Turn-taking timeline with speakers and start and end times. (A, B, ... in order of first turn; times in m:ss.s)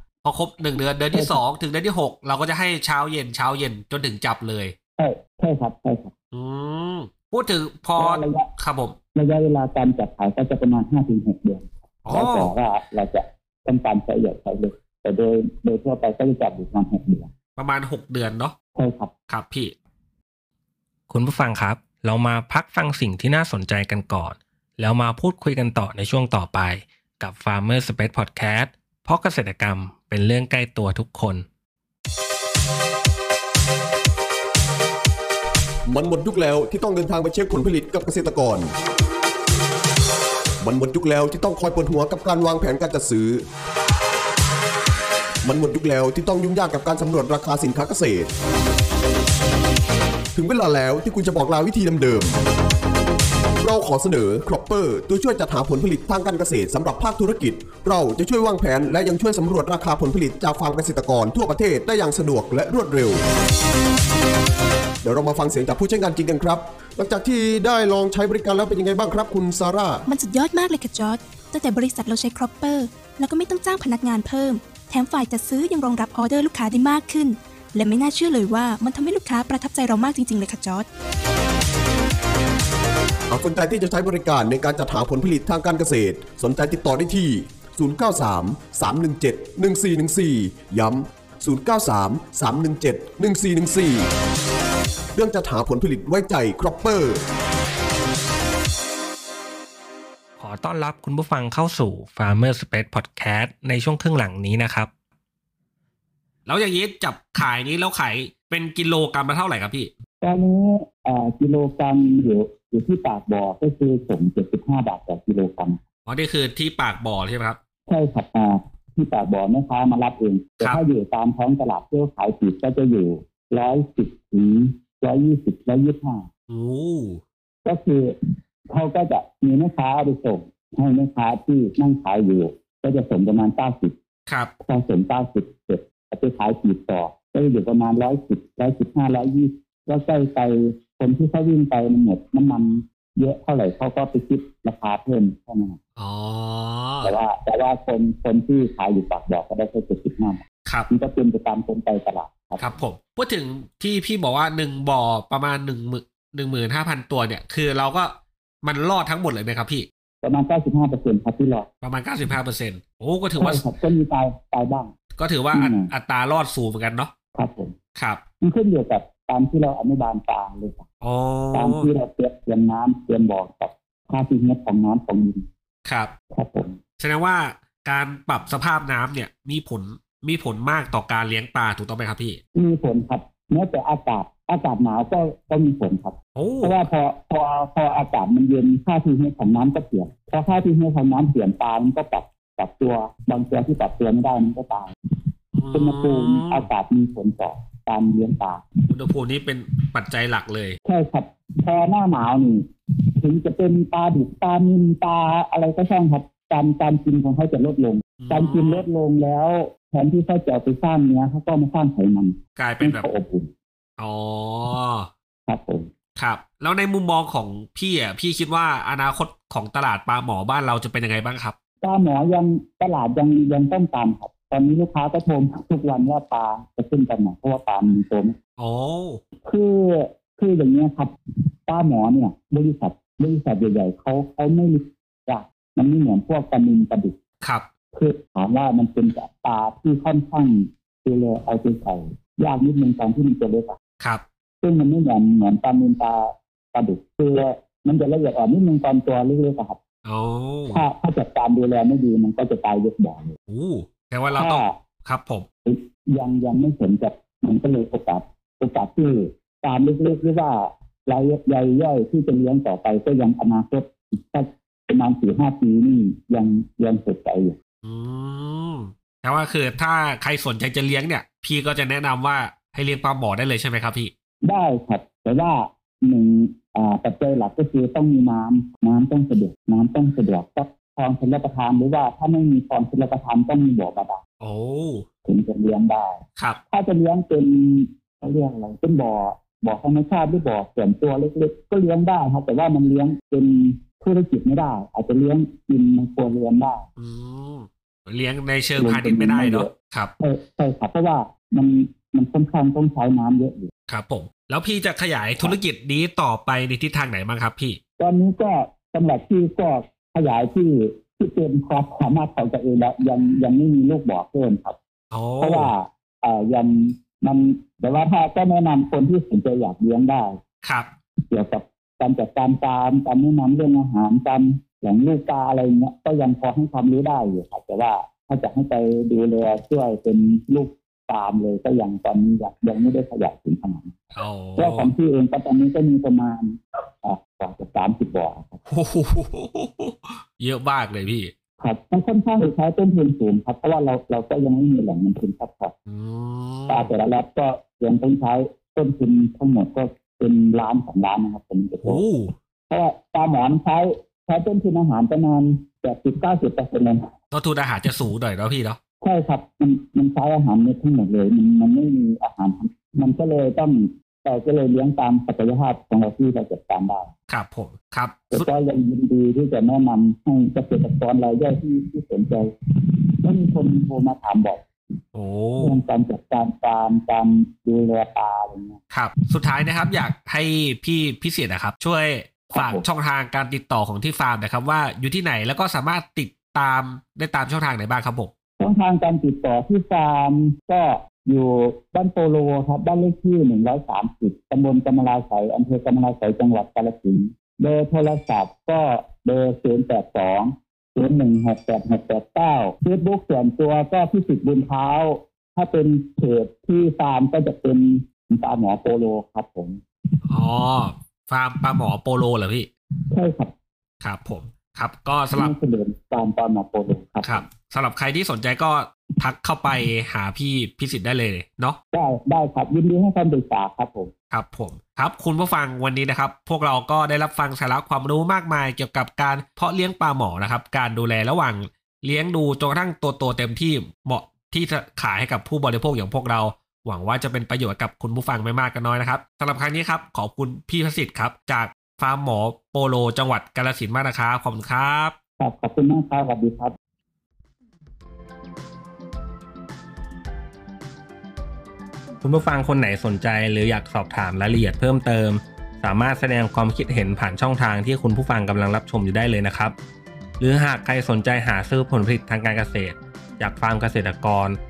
0:00.2-0:04.7 A
0:01.1-0:01.4 B
0:05.0-0:06.1 B
0:06.3-0:09.0 A
0:08.0-0:08.5 B
0:09.1-0:17.3 B
0:12.1-0:12.5 A
0:17.6-0:18.6 A
0:18.8-0:19.1 B
0:19.3-0:19.8 A
0:21.1-0:25.0 C
0:21.3-0:31.4 A
0:25.6-0:26.3 C
0:27.2-0:28.6 C
0:35.9-0:38.7 D
0:40.6-0:43.4 D
0:45.4-0:48.3 D
0:50.4-0:52.4 D
0:53.6-1:03.2 D
1:05.0-1:10.0 D
1:10.1-1:20.8 E
1:23.3-1:34.1 D
1:35.1-1:37.2 D
1:40.4-1:44.9 A
1:40.5-1:42.3 C
1:43.2-1:44.9 C
1:46.5-1:49.9 A
1:50.2-1:55.8 B
1:56.1-1:57.6 A
1:57.9-2:06.3 B
2:06.5-2:07.2 A
2:07.6-2:08.1 B
2:08.7-2:14.0 B
2:14.3-2:14.5 A
2:14.6-2:25.8 B
2:26.0-2:27.1 A
2:27.0-2:32.7 B
2:32.6-2:39.9 A
2:40.2-2:41.7 B
2:41.8-2:43.7 A
2:43.4-2:44.9 B
2:45.2-2:47.1 A
2:45.5-2:45.9 B
2:47.3-2:47.8 B
2:48.0-2:48.2 A
2:48.4-2:50.9 B
2:51.0-2:51.9 A
2:51.5-2:55.5 B
2:55.8-2:56.1 A
2:56.3-2:56.8 B
2:57.0-3:02.4 A
3:02.5-3:14.9 B
3:06.4-3:06.9 A
3:15.5-3:16.7 A
3:15.7-3:18.7 B
3:18.9-3:20.8 A
3:20.8-3:33.5 B
3:28.2-3:28.8 A
3:32.6-3:33.1 A
3:34.0-3:35.1 A
3:35.5-3:35.9 B
3:36.2-3:41.6 A
3:41.8-3:48.4 B
3:48.6-3:49.2 A
3:49.4-3:51.1 B
3:51.7-3:57.2 B
3:57.9-4:03.8 B
4:04.6-4:09.8 B
4:10.0-4:10.8 A
4:10.7-4:13.4 B
4:13.5-4:15.4 A
4:14.3-4:14.8 B
4:15.7-4:27.6 B
4:27.8-4:34.1 A
4:34.4-4:44.2 B
4:44.4-4:45.0 A
4:45.2-4:56.9 B
4:57.0-5:00.1 A
4:58.8-5:03.7 B
5:03.9-5:07.8 A
5:08.0-5:14.8 B
5:15.1-5:15.7 A
5:15.4-5:20.4 B
5:20.6-5:20.9 A
5:21.3-5:34.0 B
5:34.1-5:34.9 A
5:34.6-5:38.6 B
5:38.7-5:41.3 A
5:41.6-5:45.7 B
5:45.9-5:46.9 A
5:46.7-5:52.0 B
5:51.8-5:52.3 A
5:52.7-5:57.0 B
5:57.3-5:58.8 A
5:59.0-6:07.1 B
6:07.3-6:08.5 A
6:08.3-6:14.6 B
6:15.1-6:15.8 A
6:15.6-6:18.8 B
6:18.9-6:28.3 A
6:22.5-6:22.8 B
6:28.6-6:49.8 B
6:50.3-6:52.7 A
6:53.1-6:53.5 B
6:54.0-6:55.5 A
6:55.3-6:57.5 B
6:57.2-7:01.8 A
7:01.9-7:04.1 B
7:04.3-7:25.2 A
7:25.4-7:26.7 B
7:32.2-7:39.7 C
7:32.7-7:34.7 A
7:36.2-7:39.7 A
7:40.4-7:44.4 A
7:43.4-7:44.6 C